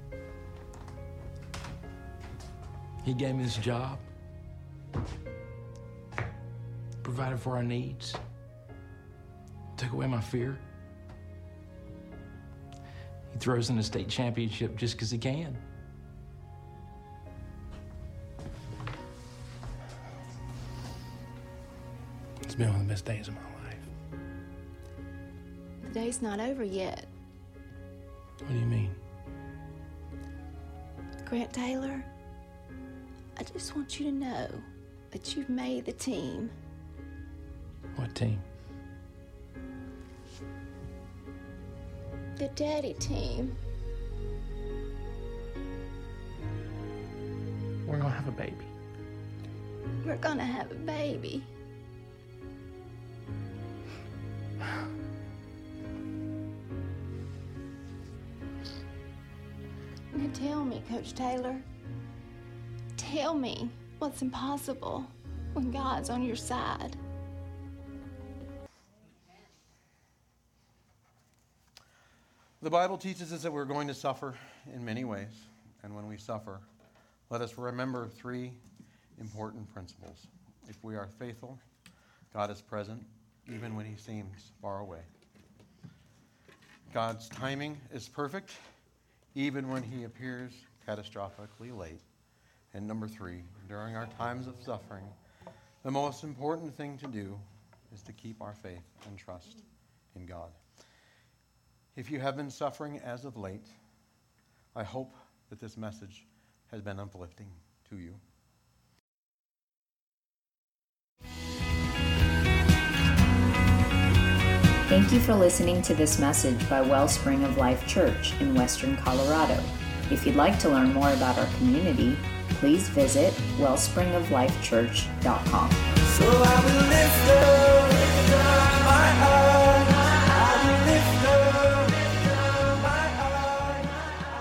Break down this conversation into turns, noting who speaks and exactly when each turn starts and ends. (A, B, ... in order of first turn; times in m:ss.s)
0:03.0-0:04.0 A
0:07.0-0:08.2 A
0:09.8-0:10.6 A
0:13.3-0:15.6 A
0:22.4-0:23.9 A
0:25.8-0:27.1 B
0:28.4-0:29.0 A
0:31.2-0:32.1 B
0:33.4-0:36.5 B
0:37.9-0:38.5 A
0:42.4-0:43.6 B
0:47.8-0:48.7 A
0:50.0-0:51.5 B
1:00.1-1:01.6 B
1:03.0-1:07.0 B
1:12.6-1:16.7 C
1:17.3-1:18.6 C
1:19.2-1:21.6 C
1:22.3-1:25.1 C
1:26.9-1:28.6 C
1:29.3-1:32.0 C
1:32.7-1:35.2 C
1:35.8-1:40.6 C
1:41.9-1:43.8 C
1:44.7-1:48.2 C
1:54.9-2:05.8 D
2:06.1-2:12.1 E
2:12.7-2:13.8 E